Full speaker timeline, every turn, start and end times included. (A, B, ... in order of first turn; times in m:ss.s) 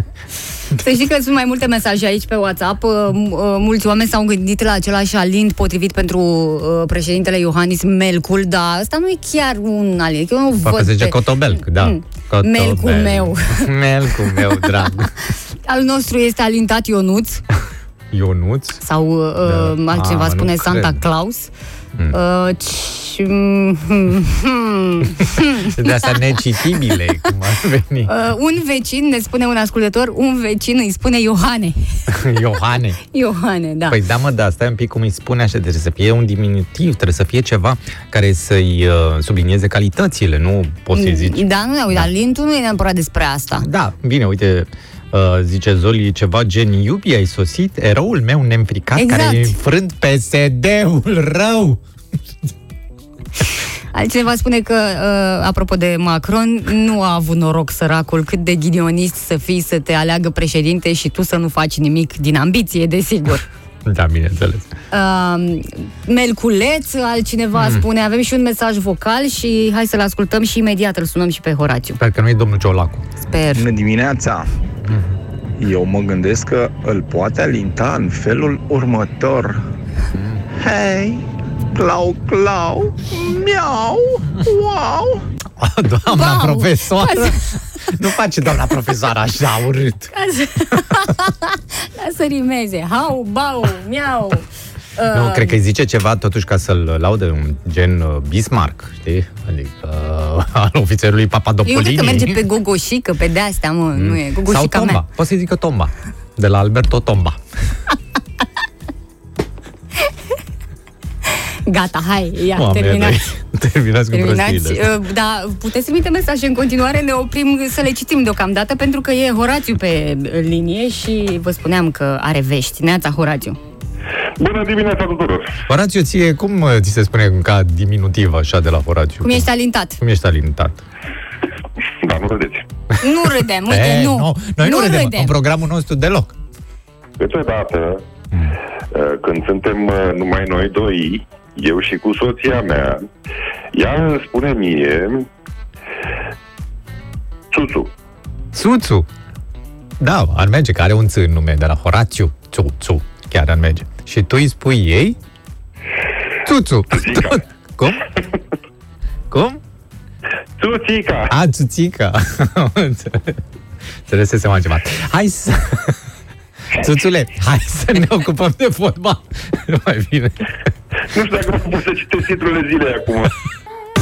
0:00.7-0:13.7 A
0:10.6-0:15.1 B
0:15.7-0:17.4 A
0:18.1-0:18.8 B
0:18.8-0:21.5 A
0:19.4-0:21.0 B
0:22.1-0:26.2 A
0:25.6-0:28.1 B
0:28.1-0:32.0 A
0:32.1-0:33.0 B
0:33.1-0:34.0 A
0:33.9-0:42.1 B
0:40.9-0:43.7 A
0:43.6-0:51.8 B
0:49.0-0:49.6 A
0:53.9-1:03.4 A
1:03.8-1:04.7 B
1:04.9-1:12.0 A
1:07.6-1:07.8 B
1:12.0-1:13.1 B
1:13.3-1:13.7 A
1:13.5-1:14.5 C
1:15.6-1:19.6 C
1:20.1-1:20.7 B
1:20.6-1:21.2 C
1:21.8-1:23.0 C
1:22.3-1:30.1 B
1:26.1-1:27.5 A
1:30.1-1:35.6 A
1:35.1-1:42.4 B
1:41.6-1:45.0 A
1:43.9-1:47.4 B
1:51.3-1:53.2 A
1:52.5-1:54.9 B
1:54.1-2:03.6 A
2:04.4-2:05.6 D
2:05.7-2:09.5 B
2:09.2-2:10.0 A
2:10.0-2:10.8 B
2:12.0-2:12.7 D
2:13.0-2:15.3 A
2:13.6-2:16.4 B
2:17.2-2:18.0 D
2:18.9-2:23.1 D
2:23.7-2:25.3 D
2:27.5-2:27.9 D
2:28.5-2:29.1 B
2:30.0-2:35.2 B
2:36.4-2:38.1 B
2:36.9-2:37.4 D
2:39.3-2:39.6 B
2:40.6-2:41.3 D
2:41.3-2:43.4 B
2:44.1-2:46.0 B
2:46.7-2:50.5 B
2:51.1-2:53.4 D